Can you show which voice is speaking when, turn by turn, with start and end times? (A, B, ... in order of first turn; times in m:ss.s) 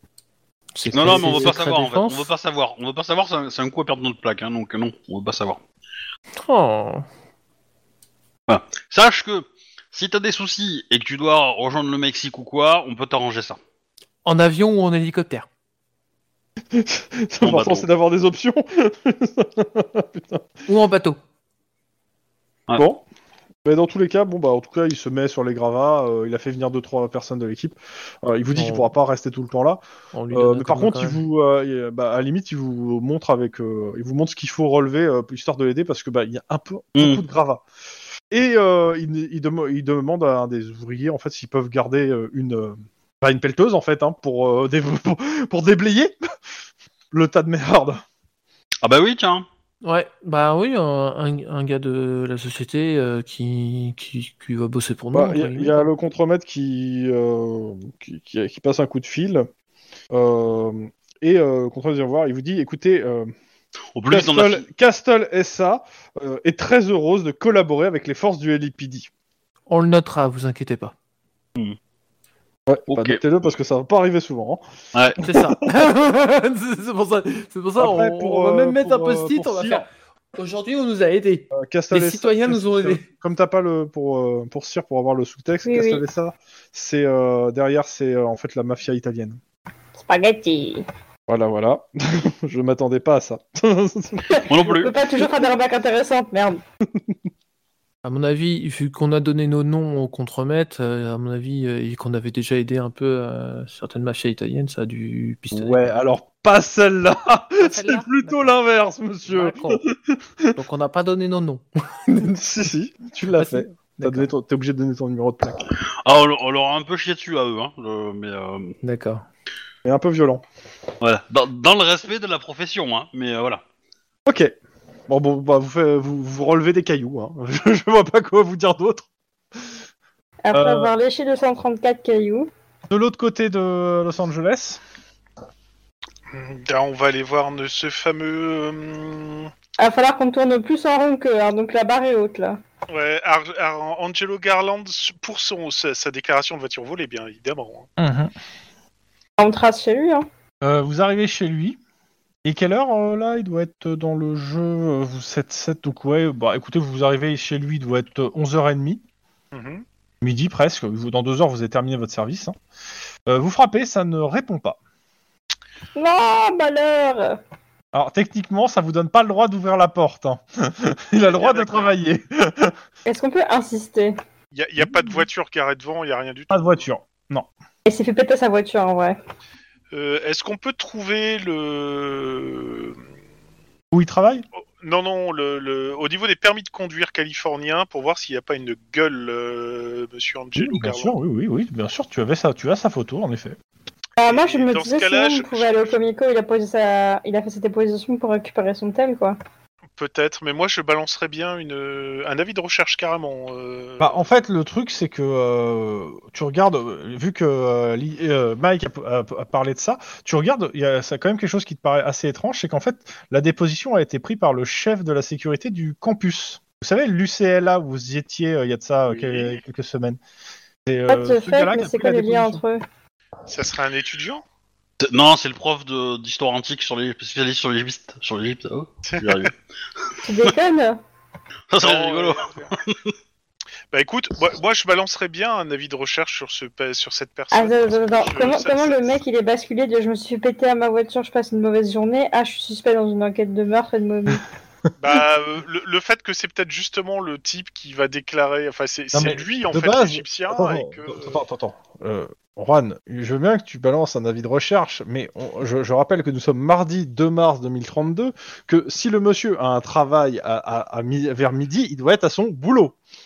0:00.7-0:02.3 A
0:00.9-0:05.6 B
0:01.0-0:01.5 C
0:06.4-0:07.1 A
0:08.5-0:13.6 B
0:14.2-0:15.5 A
0:16.7-0:20.4 C
0:17.4-0:17.8 B
0:20.7-0:21.2 A
0:22.8-0:23.0 C
0:23.6-0:37.6 C
0:28.5-0:28.9 A
0:30.1-0:31.2 A
0:37.0-0:37.2 B
0:38.3-0:46.1 C
0:47.1-0:48.0 C
0:48.8-0:49.4 B
0:49.8-0:55.9 A
0:55.1-0:59.5 C
1:00.1-1:03.3 C
1:03.9-1:04.6 B
1:04.1-1:09.1 C
1:09.7-1:10.9 A
1:12.7-1:14.6 C
1:12.9-1:13.2 B
1:14.9-1:15.2 B
1:15.2-1:23.0 A
1:15.2-1:15.5 C
1:17.8-1:19.8 C
1:21.5-1:29.4 C
1:25.6-1:26.0 D
1:30.0-1:30.8 D
1:31.3-1:34.7 C
1:34.3-1:36.6 D
1:34.4-1:34.9 B
1:38.0-1:45.9 A
1:45.5-1:50.6 C
1:47.6-1:48.5 A
1:49.3-1:49.8 A
1:50.6-1:52.3 A
1:52.1-1:55.7 C
1:53.3-1:54.3 A
1:56.0-1:58.8 B
1:58.8-1:59.2 A
1:59.8-2:00.4 C
2:01.0-2:03.6 B
2:04.2-2:04.5 C
2:05.1-2:09.1 C
2:10.4-2:12.5 D
2:10.5-2:10.9 C
2:12.9-2:14.8 C
2:16.3-2:19.5 E
2:19.8-2:22.6 D
2:22.9-2:27.9 E
2:28.0-2:28.3 C
2:29.4-2:30.2 D
2:30.6-2:31.8 C
2:32.4-2:39.0 C
2:39.5-2:39.8 E
2:40.2-2:42.6 C
2:43.3-2:44.8 C
2:45.9-2:47.4 D
2:47.9-2:52.7 C
2:51.3-2:51.9 E
2:53.0-2:54.2 D
2:54.5-2:56.8 E
2:56.5-2:57.5 C
2:57.8-2:59.2 D
2:59.9-3:03.0 E
3:03.9-3:04.4 C
3:04.8-3:11.2 E
3:10.6-3:13.6 C
3:14.2-3:19.4 D
3:14.2-3:16.0 E
3:20.0-3:24.1 E
3:24.0-3:40.2 C
3:40.8-3:42.6 C
3:41.1-3:42.8 D
3:43.5-3:44.4 E
3:45.0-3:49.5 B
3:49.1-3:49.5 E
3:50.1-3:50.5 B
3:50.2-3:51.0 D
3:51.7-3:53.1 B
3:51.8-3:52.7 E
3:53.9-3:59.2 E
3:57.5-4:04.4 D
4:05.0-4:11.4 E
4:09.1-4:23.0 C